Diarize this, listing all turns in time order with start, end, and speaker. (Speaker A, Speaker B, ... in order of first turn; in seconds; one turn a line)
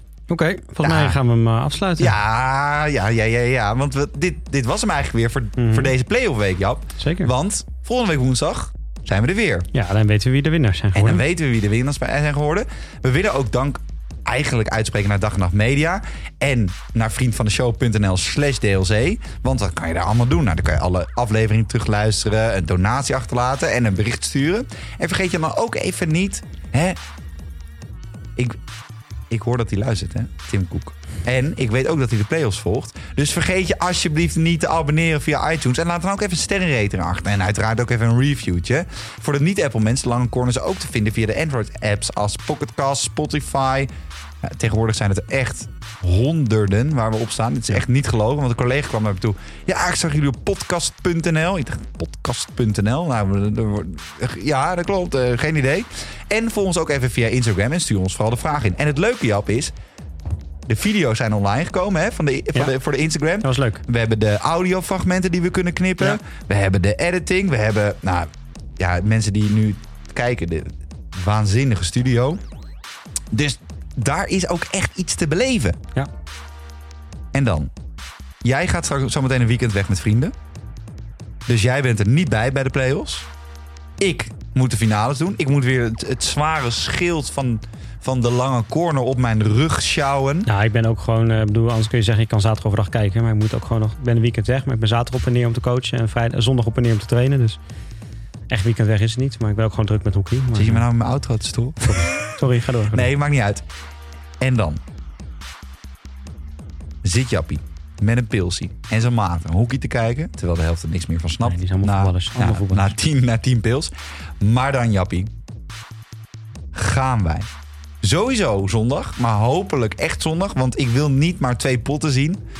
Speaker A: 0.3-2.1
Speaker B: 0.8-1.2
Speaker B: 2.0-9.7
Speaker A: 5.6-5.9
Speaker A: 7.0-7.3
Speaker A: 9.7-11.2
Speaker B: 10.9-27.0
Speaker B: 29.3-43.9
Speaker B: 44.4-59.7
Speaker B: 60.7-72.4
Speaker A: 63.4-63.8
Speaker B: 73.3-75.8
Speaker B: 77.3-77.7
Speaker B: 78.4-80.3
Speaker B: 81.5-83.3
Speaker B: 84.0-90.5
Speaker A: 90.5-97.6
Speaker A: 98.5-100.8
Speaker B: 100.5-102.4
Speaker A: 101.8-103.1
Speaker B: 102.9-103.6
Speaker B: 104.4-104.8
Speaker B: 107.0-115.3
Speaker A: 111.4-113.0
Speaker B: 116.7-117.5
Speaker B: 118.0-122.4